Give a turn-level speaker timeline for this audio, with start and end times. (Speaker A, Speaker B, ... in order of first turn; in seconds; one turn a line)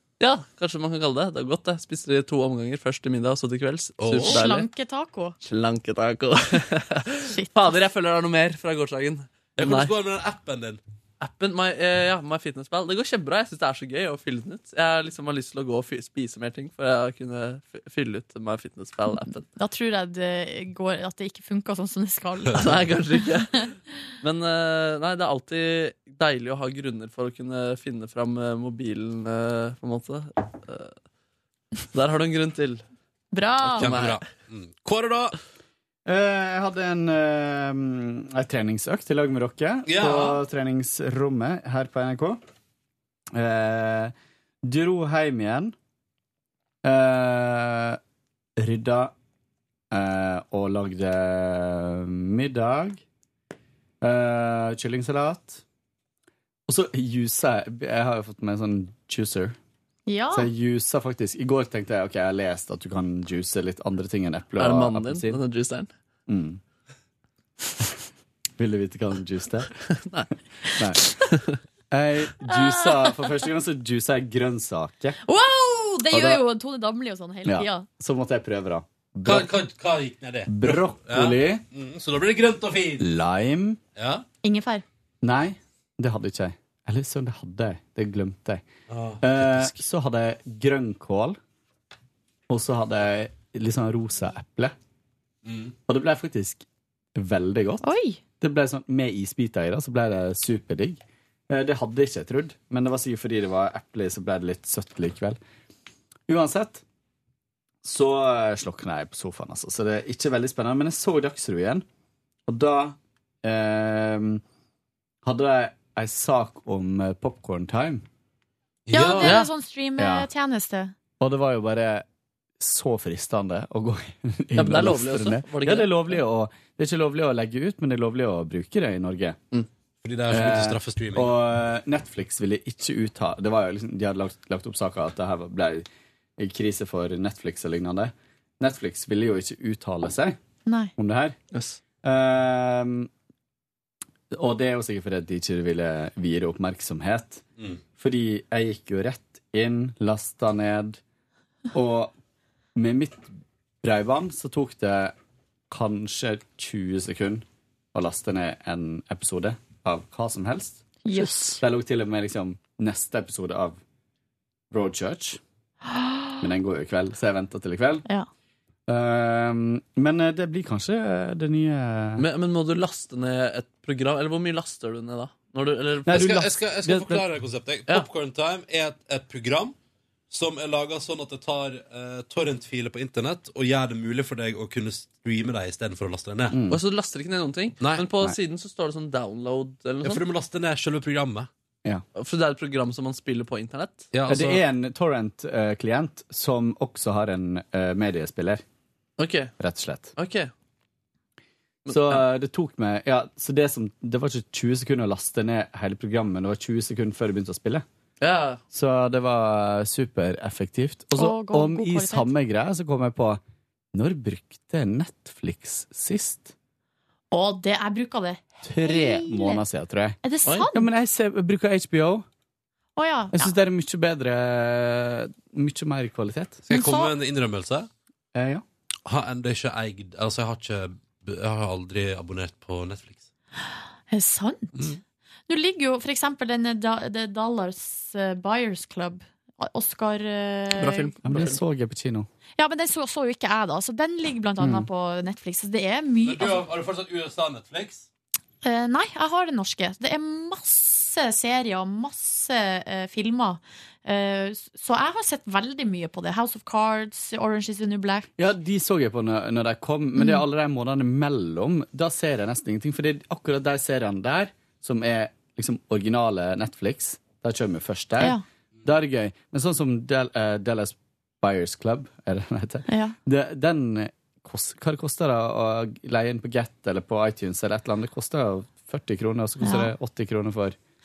Speaker A: 0.2-4.7
Speaker B: 4.0-4.4
Speaker C: 4.2-5.3
Speaker A: 5.4-9.9
Speaker B: 9.6-10.8
Speaker A: 11.2-19.5
Speaker C: 19.6-23.3
Speaker A: 22.5-30.9
Speaker A: 31.9-32.8
Speaker C: 33.3-33.9
Speaker A: 33.6-34.2
Speaker B: 33.8-35.4
Speaker D: 36.0-42.4
Speaker B: 39.9-40.4
Speaker D: 43.3-44.1
Speaker D: 44.6-45.7
Speaker D: 46.8-48.0
Speaker D: 48.6-49.1
Speaker D: 49.9-53.0
Speaker D: 54.0-55.6
Speaker D: 56.7-59.5
Speaker C: 60.1-60.5
Speaker D: 60.3-65.4
Speaker A: 64.6-65.9
Speaker D: 66.3-66.6
Speaker D: 68.6-69.7
Speaker A: 69.8-70.3
Speaker A: 70.9-71.6
Speaker D: 71.9-75.2
Speaker C: 72.5-73.1
Speaker C: 75.2-77.8
Speaker D: 76.1-76.4
Speaker D: 77.5-79.5
Speaker B: 79.2-83.0
Speaker D: 80.5-81.6
Speaker D: 83.0-83.8
Speaker B: 84.0-84.2
Speaker C: 84.4-84.8
Speaker D: 85.2-88.7
Speaker B: 88.9-89.7
Speaker D: 89.2-91.4
Speaker D: 92.5-94.7
Speaker B: 95.4-95.7
Speaker D: 95.9-96.6
Speaker D: 97.2-101.0
Speaker C: 97.8-98.2
Speaker D: 101.5-105.4
Speaker D: 106.3-106.8
Speaker D: 107.8-111.8
Speaker D: 112.5-114.4
Speaker D: 115.2-118.0
Speaker B: 118.8-119.4
Speaker C: 118.9-120.9
Speaker A: 119.2-119.5
Speaker D: 120.0-120.3
Speaker D: 121.2-122.0
Speaker D: 122.6-129.4
Speaker A: 124.5-126.2
Speaker B: 130.0-131.3
Speaker D: 130.3-135.9
Speaker D: 136.4-140.4
Speaker C: 140.7-140.9
Speaker D: 141.0-141.4
Speaker D: 142.0-143.1
Speaker D: 144.3-151.0
Speaker D: 151.7-152.1
Speaker D: 152.8-155.1
Speaker D: 155.7-163.8
Speaker C: 161.0-161.6
Speaker D: 164.7-165.4
Speaker C: 165.9-166.3
Speaker D: 166.4-168.1
Speaker D: 168.9-172.2
Speaker A: 172.2-176.2
Speaker D: 176.1-177.2
Speaker B: 176.1-179.8
Speaker B: 180.3-186.6
Speaker D: 186.5-186.8
Speaker A: 186.7-190.2
Speaker B: 187.8-188.1
Speaker B: 190.0-191.5
Speaker A: 192.2-194.1
Speaker B: 194.1-194.6
Speaker D: 194.3-198.6
Speaker A: 199.2-199.5
Speaker D: 199.6-200.1
Speaker A: 200.2-200.5
Speaker A: 201.9-202.2
Speaker D: 201.9-207.8
Speaker A: 208.2-208.6
Speaker D: 208.7-213.4
Speaker C: 211.1-212.3
Speaker D: 213.9-216.5
Speaker C: 217.3-219.6
Speaker D: 218.6-220.2
Speaker C: 220.2-220.9
Speaker D: 220.7-222.2
Speaker C: 223.0-223.5
Speaker D: 223.3-226.7
Speaker B: 226.7-227.9
Speaker C: 226.7-227.1
Speaker D: 228.3-228.6
Speaker B: 229.0-233.2
Speaker C: 234.1-241.2
Speaker A: 240.8-241.6
Speaker D: 241.2-242.3
Speaker C: 242.6-246.6
Speaker D: 244.6-244.8
Speaker B: 246.2-248.1
Speaker C: 248.6-258.3
Speaker D: 258.4-280.8
Speaker C: 260.2-260.4
Speaker C: 272.9-273.1
Speaker C: 279.6-279.9